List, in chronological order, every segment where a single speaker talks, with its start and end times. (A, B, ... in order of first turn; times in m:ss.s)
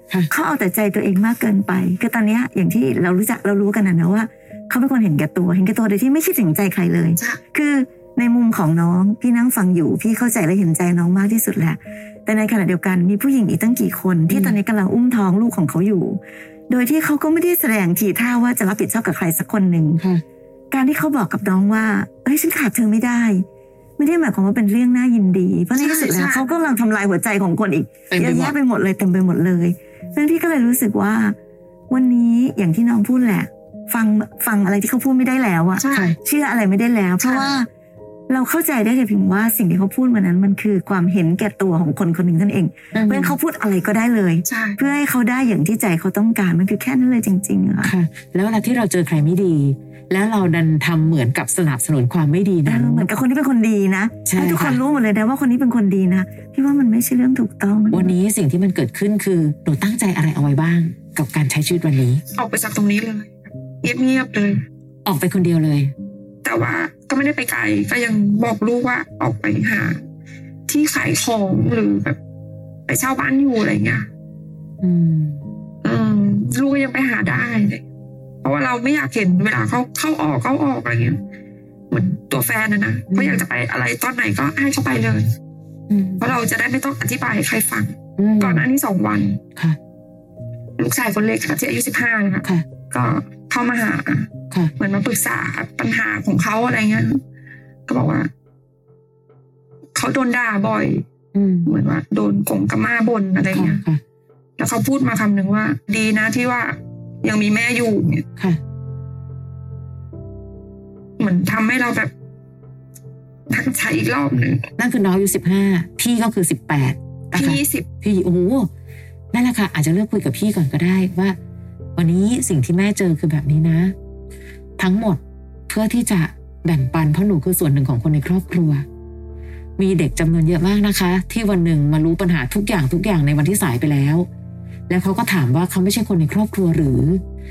0:00.3-0:20.0 A
0:14.3-0:14.6 B
0:20.7-0:23.4 A
0:24.0-0:31.4 A
0:25.8-0:26.6 C
0:28.1-0:28.6 B
0:31.9-0:37.7 A
0:35.8-0:36.2 C
0:35.9-0:36.2 B
0:37.2-0:37.5 C
0:38.3-0:47.9 A
0:42.9-0:43.4 B
0:44.5-0:44.8 C
0:47.8-0:53.1 B
0:52.7-0:58.1 A
0:54.3-0:54.8 B
0:57.9-1:02.2 B
1:02.4-1:04.6 C
1:05.1-1:05.9 B
1:06.4-1:10.0 C
1:10.7-1:12.2 C
1:12.9-1:14.1 C
1:14.8-1:15.4 B
1:15.8-1:17.8 C
1:18.4-1:21.2 C
1:21.9-1:25.3 C
1:23.1-1:23.4 B
1:25.9-1:26.2 B
1:26.2-1:29.4 C
1:28.2-1:28.6 B
1:30.8-1:37.2 C
1:37.9-1:38.3 C
1:40.0-1:41.0 C
1:41.3-1:41.7 B
1:41.7-1:43.8 C
1:43.5-1:44.0 B
1:44.6-1:48.2 C
1:51.2-1:52.1 C
1:53.5-1:54.6 C
1:54.8-1:58.7 B
1:57.3-1:57.9 C
1:59.3-2:01.4 B
2:02.0-2:03.9 B
2:04.8-2:08.8 B
2:09.8-2:14.3 B
2:14.9-2:17.2 B